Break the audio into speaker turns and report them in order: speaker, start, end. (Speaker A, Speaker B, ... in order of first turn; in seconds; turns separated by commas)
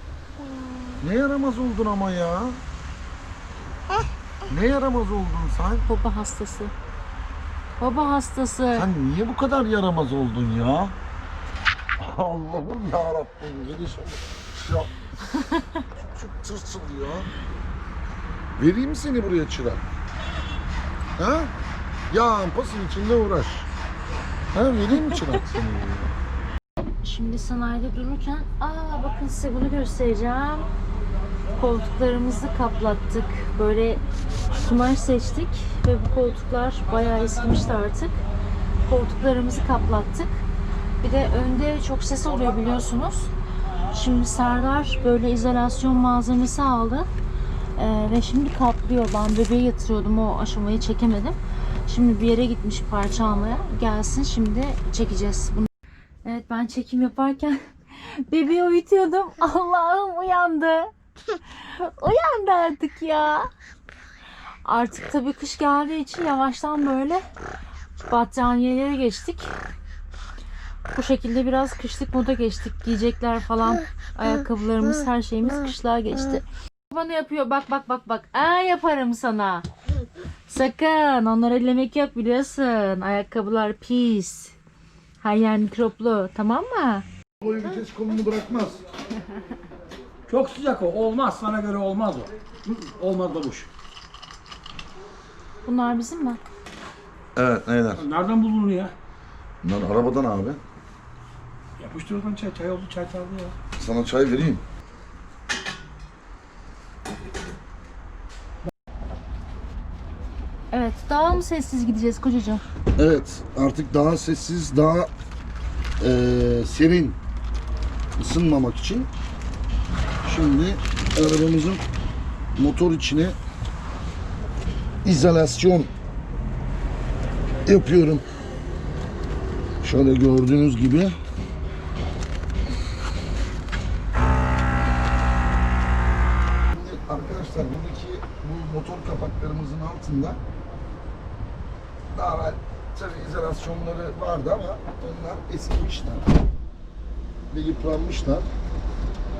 Speaker A: 1.0-2.6, Speaker A: 4.5-5.8, Speaker B: 5.9-6.7, Speaker B: 7.8-8.9, Speaker A: 8.7-11.0, Speaker A: 12.0-15.0, Speaker A: 16.0-17.3, Speaker A: 18.6-19.8, Speaker A: 21.2-21.5, Speaker A: 22.1-23.7, Speaker A: 24.5-26.1, Speaker B: 27.0-30.7, Speaker B: 31.5-38.2, Speaker B: 38.8-40.3, Speaker B: 41.0-43.3, Speaker B: 43.9-47.1, Speaker B: 47.8-55.7, Speaker B: 56.2-60.9, Speaker B: 61.6-63.5, Speaker B: 64.7-67.2, Speaker B: 68.1-69.5, Speaker B: 70.9-79.7, Speaker B: 80.5-84.5, Speaker B: 85.2-87.1, Speaker A: 87.4-88.8, Speaker C: 90.3-93.7, Speaker B: 95.7-96.4, Speaker A: 97.4-98.0, Speaker C: 98.0-98.9, Speaker A: 99.6-100.6, Speaker C: 101.8-103.5, Speaker A: 103.8-104.6, Speaker B: 110.7-112.6, Speaker A: 113.0-115.1, Speaker A: 116.0-117.2, Speaker A: 118.2-119.1, Speaker A: 120.2-121.8, Speaker A: 122.6-123.4, Speaker A: 125.0-125.9, Speaker A: 127.7-128.2, Speaker A: 129.8-131.2, Speaker A: 136.7-140.4, Speaker A: 142.1-146.3, Speaker A: 147.5-148.5